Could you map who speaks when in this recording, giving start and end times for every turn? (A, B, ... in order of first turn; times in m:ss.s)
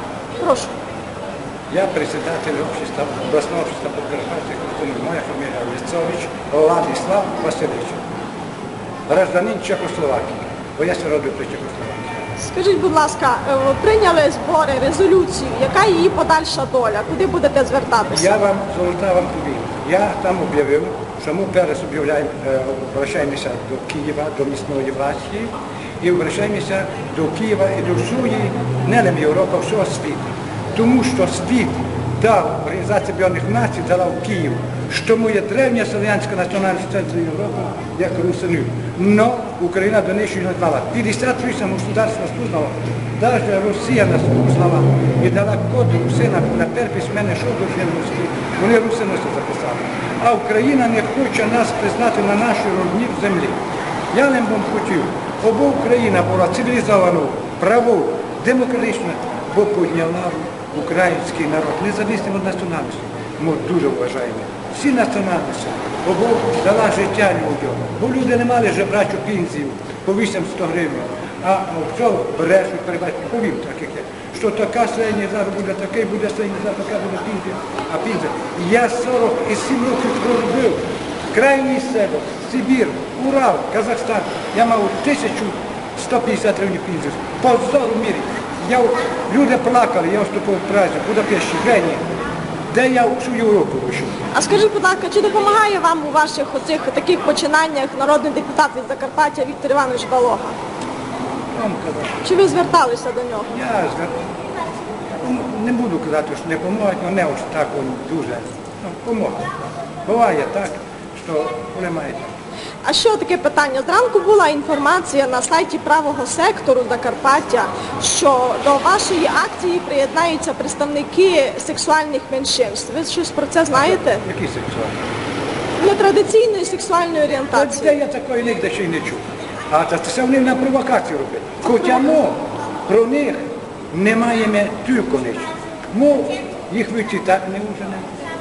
0:00.4-0:00.7 A
0:01.7-0:08.0 B
0:09.1-0:12.1 B
0:12.4-0:18.3 A
0:18.1-0:30.2 B
0:30.8-0:53.6 B
0:54.1-1:32.0 B
1:32.7-1:34.3 B
1:34.3-1:40.6 A
1:41.6-1:42.2 B
1:42.2-1:43.5 A
1:43.5-1:44.2 B
1:45.2-1:49.5 B
1:50.1-1:52.3 B
1:52.8-2:04.2 A
2:03.7-2:05.0 B
2:05.8-2:08.0 A
2:07.5-2:18.1 B